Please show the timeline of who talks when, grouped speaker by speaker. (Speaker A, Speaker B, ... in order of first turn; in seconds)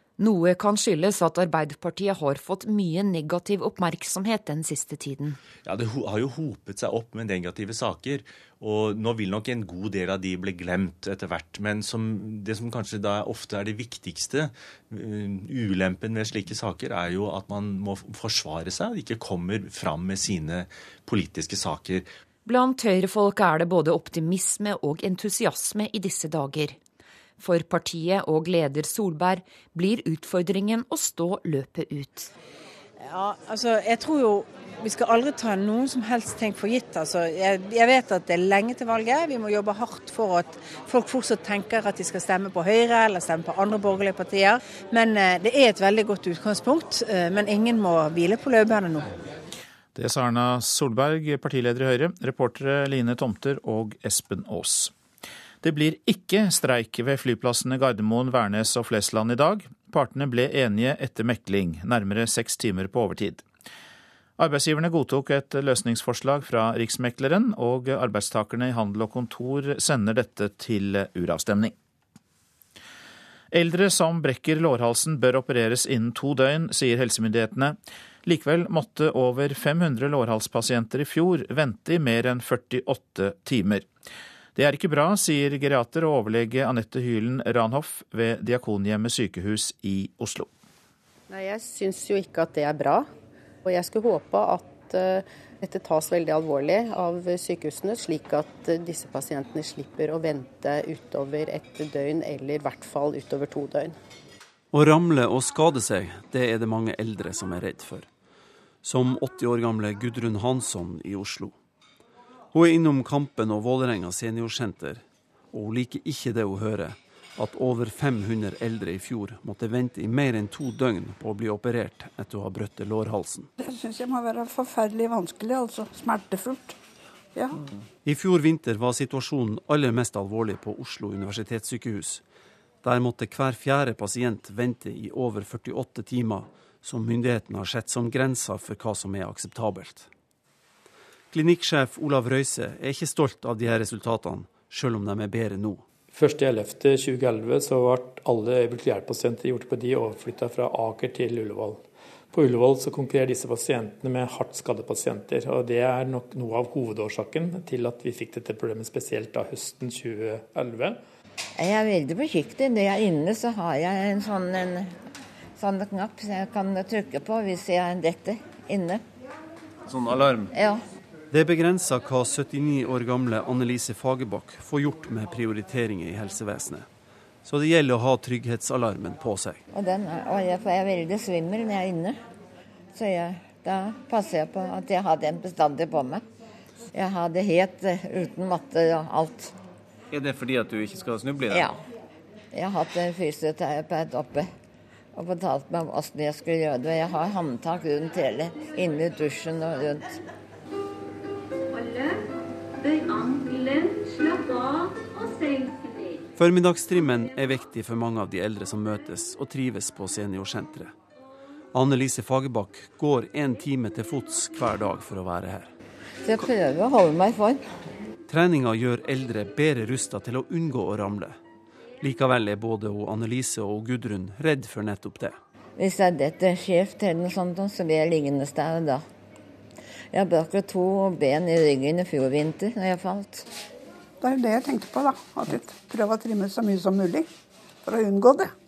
Speaker A: 0.2-5.4, 22.4-26.8, 27.4-32.3
Speaker B: 5.6-22.1
Speaker C: 33.0-49.1
Speaker D: 49.9-54.9, 55.6-63.4, 64.4-71.7, 73.5-83.9, 84.5-90.5
Speaker E: 91.3-93.1, 93.6-103.9
Speaker F: 104.7-108.1, 108.8-111.5, 112.5-123.5, 128.0-132.2, 132.8-140.1, 141.3-145.8, 171.3-176.8, 177.4-179.6, 206.3-210.9, 211.7-215.7, 218.3-221.4, 222.0-225.4
Speaker G: 123.6-126.8, 127.3-127.6, 234.2-237.3, 237.8-238.5
Speaker H: 146.1-161.0
Speaker I: 161.6-165.0, 165.6-169.0, 170.5-170.8, 179.7-182.2, 182.9-186.2, 186.9-189.5, 191.5-191.8, 192.5-194.5, 195.1-200.2, 216.2-217.6, 225.8-229.0, 230.1-233.5